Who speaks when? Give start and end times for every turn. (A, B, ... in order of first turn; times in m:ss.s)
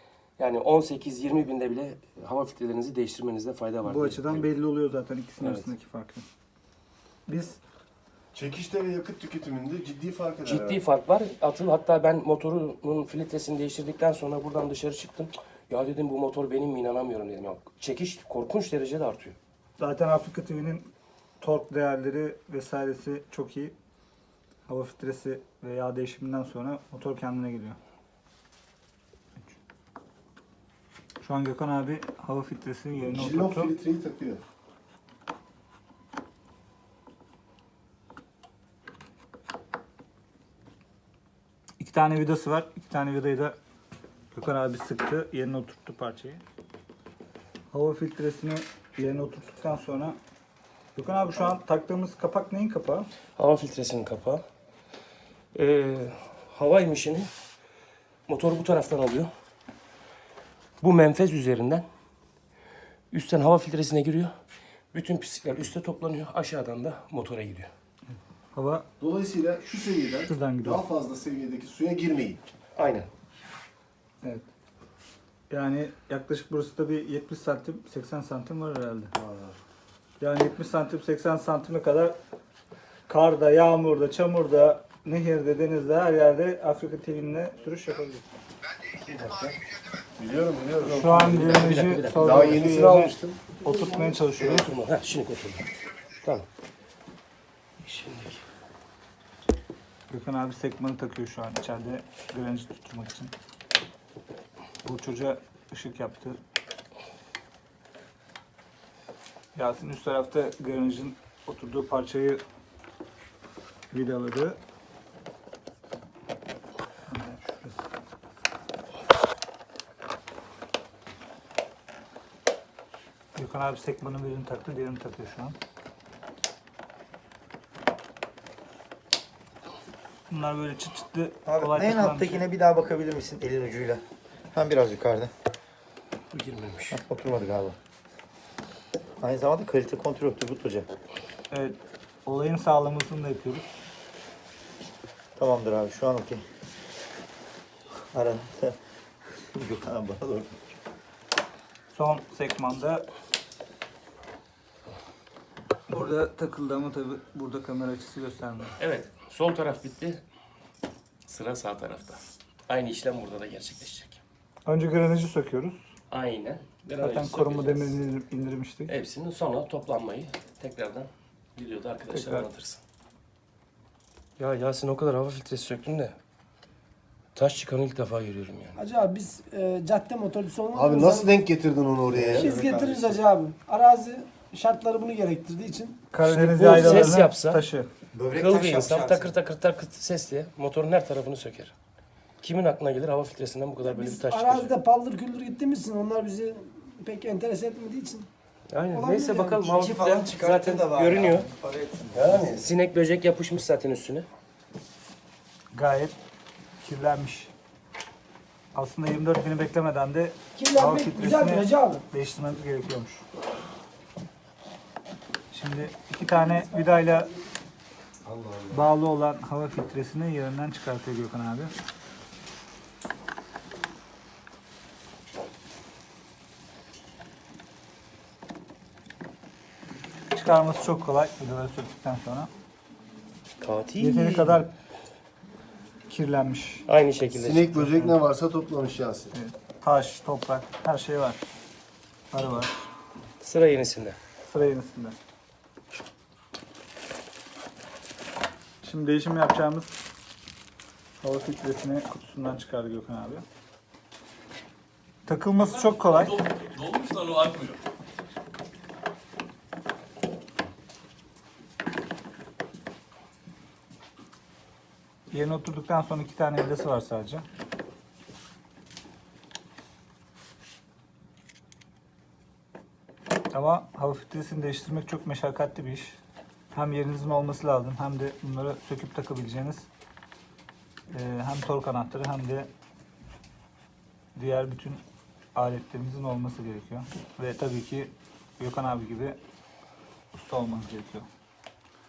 0:00.4-0:04.5 A
0:03.8-0:06.3 B
0:05.4-0:05.7 A
0:07.3-0:07.6 B
0:08.3-0:10.8 C
0:10.4-0:19.4 A
0:19.8-0:23.8 B
0:24.7-0:27.8 B
0:31.2-0:33.7 B
0:33.0-0:34.4 C
0:41.8-0:43.6 B
0:44.3-0:46.4 B
0:47.7-0:50.2 B
0:51.0-0:53.1 B
0:53.4-0:54.4 A
0:55.5-0:57.3 A
0:58.3-0:59.3 A
1:00.8-1:01.9 A
1:03.1-1:04.3 A
1:04.9-1:07.7 A
1:08.5-1:08.9 B
1:09.0-1:12.4 C
1:10.2-1:10.8 B
1:12.8-1:13.1 A
1:14.2-1:14.5 B
1:15.5-1:19.1 B
1:19.2-1:19.6 C
1:20.2-1:22.2 B
1:23.1-1:28.2 B
1:29.0-1:29.6 A
1:30.2-1:33.5 C
1:30.8-1:34.7 B
1:31.0-1:32.7 A
1:33.6-1:34.2 D
1:34.4-1:35.7 A
1:37.8-1:38.4 A
1:40.1-1:43.3 B
1:44.8-1:46.4 B
1:49.6-1:52.4 B
1:53.9-1:54.6 B
1:57.1-1:57.8 B
2:03.4-2:05.6 B
2:10.3-2:12.5 B
2:11.4-2:15.3 E
2:16.3-2:17.0 A
2:16.9-2:17.8 E
2:19.2-2:20.9 E
2:21.5-2:23.7 B
2:25.4-2:26.4 E
2:28.1-2:28.8 E
2:29.5-2:30.6 E
2:31.9-2:33.1 B
2:35.9-2:38.7 B
2:38.8-2:40.2 A
2:41.3-2:44.2 A
2:44.7-2:45.8 B
2:46.1-2:48.0 A
2:47.0-2:49.0 B
2:48.9-2:52.8 A
2:52.1-2:52.5 B
2:54.4-2:56.2 A
2:57.4-2:58.8 A
2:58.8-3:01.3 D
3:00.7-3:02.5 C
3:02.1-3:03.2 E
3:02.3-3:06.0 D
3:06.1-3:07.9 B
3:06.2-3:07.6 A
3:06.7-3:07.1 D
3:08.1-3:09.3 E
3:08.3-3:11.7 A
3:12.4-3:14.7 A
3:13.8-3:18.3 D
3:18.7-3:21.5 A
3:18.9-3:19.5 D
3:19.5-3:22.6 E
3:22.2-3:22.6 C
3:22.2-3:24.3 A
3:25.7-3:26.2 B
3:26.8-3:27.5 B
3:28.8-3:33.2 B
3:30.6-3:32.1 D
3:35.5-3:37.3 B
3:36.9-3:37.2 D
3:38.2-3:38.9 C
3:38.7-3:41.7 B
3:50.3-3:52.5 B
3:53.6-3:54.6 A
3:54.0-3:54.7 B
3:56.1-3:56.8 B
3:56.9-3:57.9 A
3:57.4-3:59.3 C
3:59.3-4:01.4 B
4:02.3-4:02.8 B
4:03.4-4:04.2 A
4:04.4-4:05.2 B
4:08.8-4:10.0 B
4:11.2-4:13.4 B
4:15.3-4:16.4 B
4:15.6-4:17.8 F
4:25.3-4:27.4 B
4:33.5-4:36.2 B
4:36.7-4:39.9 B
4:41.1-4:42.7 B
4:44.4-4:45.0 B
4:45.5-4:49.4 B
4:50.3-4:51.3 B